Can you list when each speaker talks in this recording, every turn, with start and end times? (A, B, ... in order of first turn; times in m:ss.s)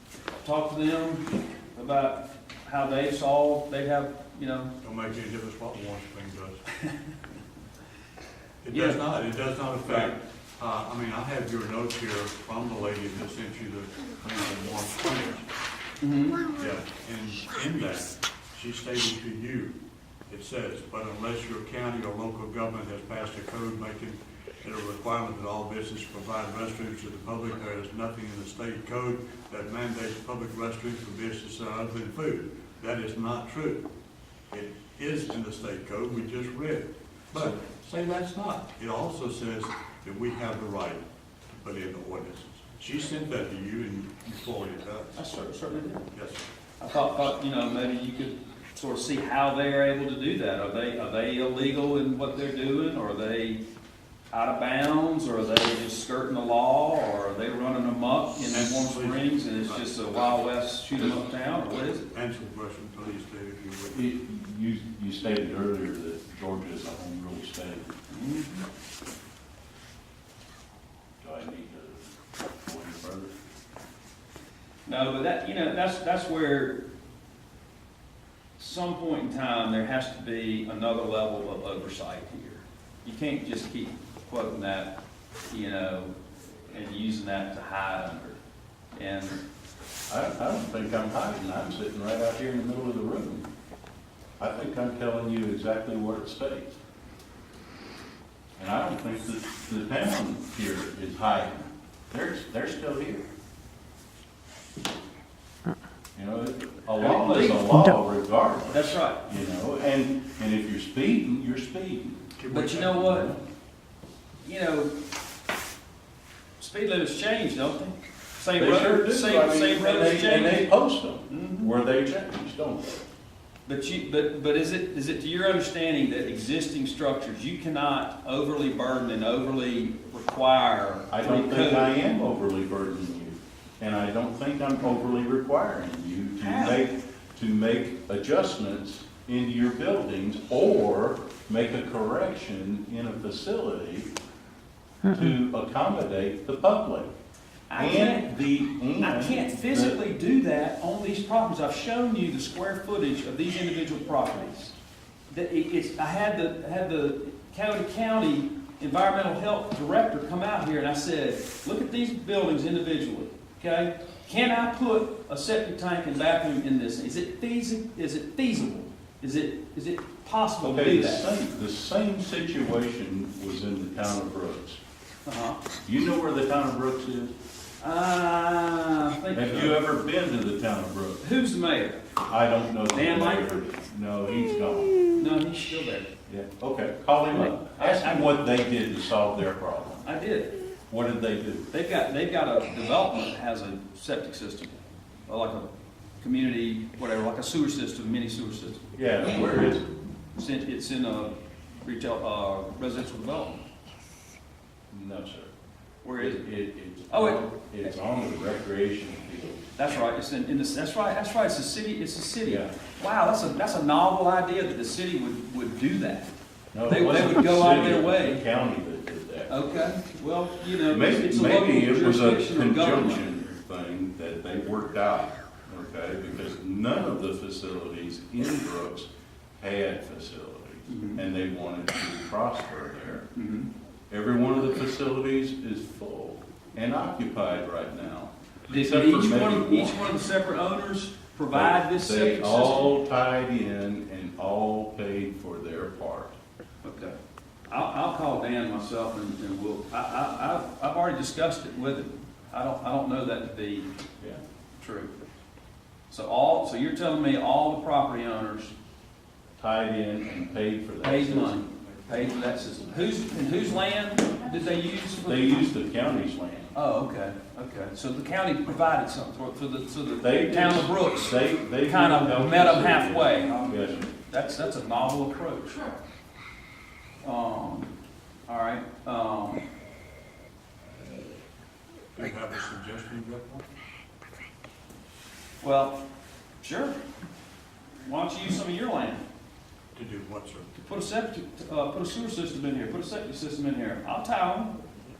0:00.4-0:04.7 A
0:04.8-0:06.6 B
0:08.6-0:15.5 B
0:08.7-0:09.0 A
0:16.0-0:16.4 A
0:16.5-0:19.7 B
0:20.3-0:33.8 B
0:34.5-0:45.2 B
0:45.2-0:46.1 A
0:46.1-0:46.4 B
0:46.8-0:53.6 A
0:54.3-1:02.1 A
0:58.5-0:59.8 B
1:02.1-1:04.0 B
1:03.9-1:07.9 C
1:08.1-1:08.6 A
1:11.2-1:13.3 C
1:14.8-1:16.8 A
1:18.6-1:28.4 A
1:28.9-1:29.4 A
1:30.1-1:33.5 C
1:34.4-1:36.8 C
1:38.6-1:43.3 C
1:46.1-1:52.2 C
1:47.0-1:47.7 A
1:48.7-1:49.2 A
1:52.4-1:53.0 B
1:52.5-1:53.3 A
1:53.0-1:53.4 C
1:54.4-1:54.9 A
1:56.6-2:00.7 A
1:58.5-2:03.0 C
2:01.3-2:01.7 A
2:03.6-2:11.9 A
2:11.1-2:24.1 C
2:16.4-2:16.8 A
2:25.1-2:27.1 C
2:27.7-2:28.3 A
2:27.8-2:30.0 C
2:29.0-2:34.7 A
2:35.3-2:51.3 A
2:50.6-2:54.8 C
2:55.2-2:55.6 A
2:55.8-2:57.3 C
2:57.8-2:59.8 A
2:59.3-3:01.2 C
3:01.2-3:02.0 A
3:02.3-3:05.0 C
3:02.9-3:03.5 A
3:05.1-3:06.1 A
3:06.3-3:10.1 C
3:07.7-3:08.4 A
3:10.0-3:10.5 A
3:10.9-3:11.7 C
3:11.7-3:15.6 A
3:16.2-3:18.8 A
3:18.9-3:19.8 C
3:20.4-3:23.6 A
3:24.9-3:25.5 C
3:26.0-3:26.4 A
3:26.2-3:29.6 C
3:27.1-3:27.4 A
3:29.8-3:36.3 A
3:32.4-3:32.7 C
3:36.7-3:39.9 C
3:36.8-3:38.4 A
3:39.5-3:43.2 A
3:40.9-3:53.3 C
3:50.9-3:51.2 A
3:53.3-3:53.7 A
3:54.1-4:00.1 C
3:58.7-4:02.9 A
4:01.5-4:06.4 C
4:06.8-4:07.1 A
4:07.7-4:13.9 A
4:14.8-4:15.1 A
4:16.1-4:18.7 A
4:19.6-4:21.9 C
4:21.0-4:25.7 A
4:25.2-4:26.7 C
4:26.7-4:35.9 A
4:30.2-4:34.1 C
4:37.2-4:37.9 A
4:38.5-4:39.6 A
4:42.1-4:43.6 B
4:45.6-4:46.0 A
4:46.6-4:47.0 A
4:48.0-4:49.2 A
4:49.9-4:50.7 B
4:50.8-4:54.8 A